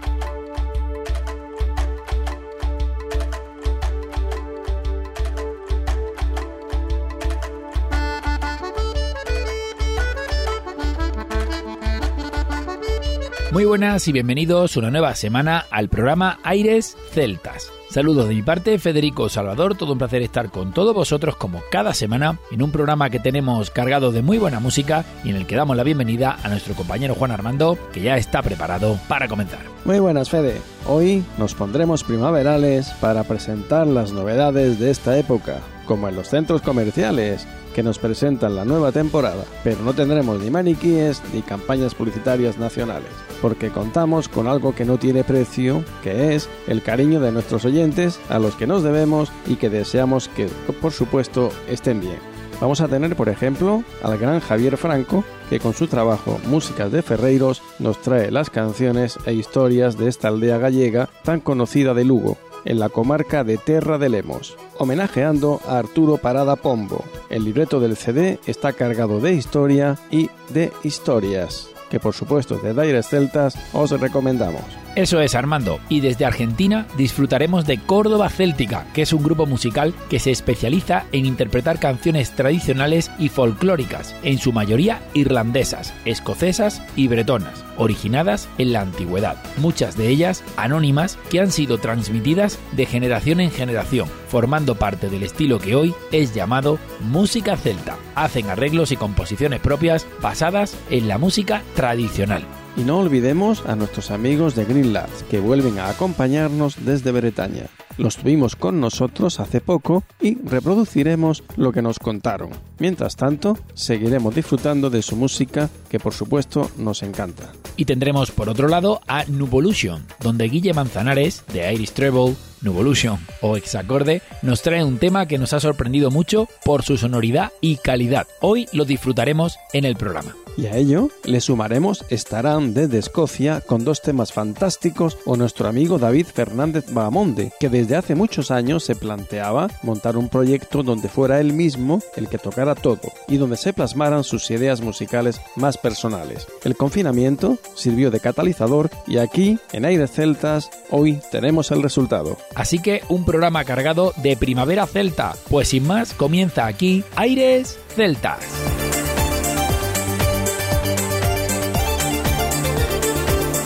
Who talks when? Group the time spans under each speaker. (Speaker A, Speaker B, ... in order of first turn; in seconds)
Speaker A: 13.5-29.7, 75.0-102.5, 117.8-130.4, 152.6-158.7
Speaker B: 29.8-74.8, 102.7-117.5, 130.6-152.4